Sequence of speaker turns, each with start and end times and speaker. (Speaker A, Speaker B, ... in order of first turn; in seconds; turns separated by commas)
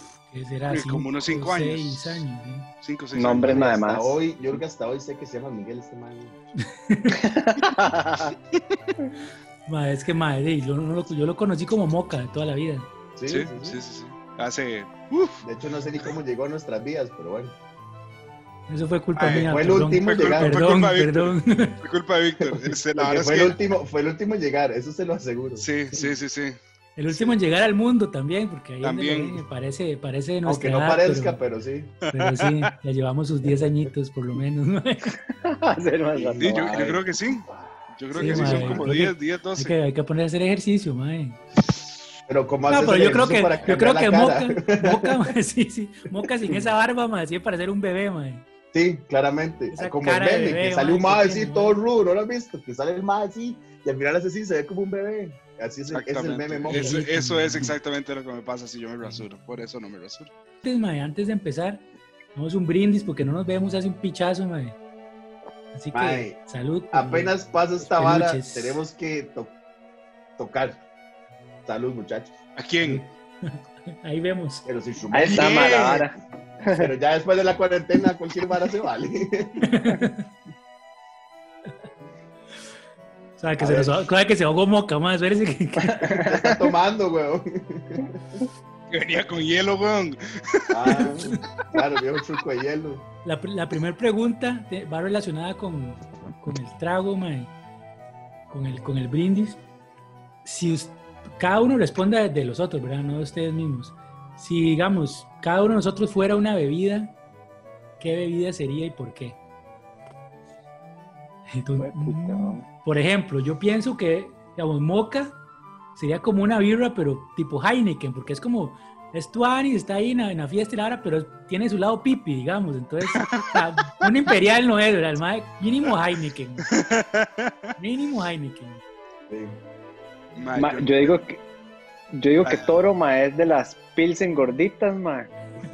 Speaker A: 0.3-2.7, Speaker B: 0.7-2.2, Speaker B: 2.8-3.6, Speaker C: 3.1-4.1, Speaker D: 3.3-6.4, Speaker A: 6.7-7.2, Speaker C: 7.1-8.3, Speaker A: 9.7-12.9, Speaker D: 13.2-13.8, Speaker B: 13.3-15.4, Speaker D: 15.4-17.6, Speaker A: 18.7-21.8, Speaker B: 19.1-23.6, Speaker D: 19.2-20.6, Speaker D: 22.4-25.6, Speaker B: 25.6-27.4, Speaker A: 27.0-31.4, Speaker B: 28.8-29.4, Speaker D: 30.5-31.9, Speaker A: 32.1-35.2, Speaker B: 32.1-32.7, Speaker C: 35.3-36.8, Speaker D: 36.1-37.0, Speaker B: 36.4-39.8, Speaker A: 38.1-41.4, Speaker D: 38.1-38.9, Speaker D: 42.3-45.3, Speaker A: 42.7-48.4, Speaker D: 48.7-57.0, Speaker A: 49.7-51.8, Speaker B: 55.9-60.3, Speaker A: 56.7-57.8, Speaker A: 60.6-61.8, Speaker A: 62.4-64.8, Speaker A: 65.7-68.8, Speaker D: 65.9-66.4, Speaker D: 66.9-69.5, Speaker D: 70.4-70.8, Speaker D: 71.7-72.4, Speaker B: 72.6-73.1, Speaker A: 72.9-74.6, Speaker D: 74.7-75.8, Speaker C: 75.1-76.9, Speaker B: 75.3-76.1, Speaker D: 76.7-79.7, Speaker A: 79.6-80.3, Speaker A: 83.4-86.2, Speaker D: 83.6-84.1, Speaker C: 85.8-86.7, Speaker D: 86.1-88.2, Speaker B: 88.9-91.1, Speaker D: 90.7-93.0, Speaker A: 93.2-97.5, Speaker A: 98.5-99.6, Speaker A: 100.5-107.2, Speaker A: 108.0-109.4, Speaker A: 111.5-115.4, Speaker C: 111.8-112.7, Speaker A: 116.0-126.7, Speaker B: 123.1-124.0, Speaker B: 126.7-127.6, Speaker A: 127.8-128.8, Speaker D: 129.3-129.6, Speaker B: 130.4-131.2, Speaker C: 130.6-131.4, Speaker C: 132.1-135.3, Speaker B: 132.4-132.8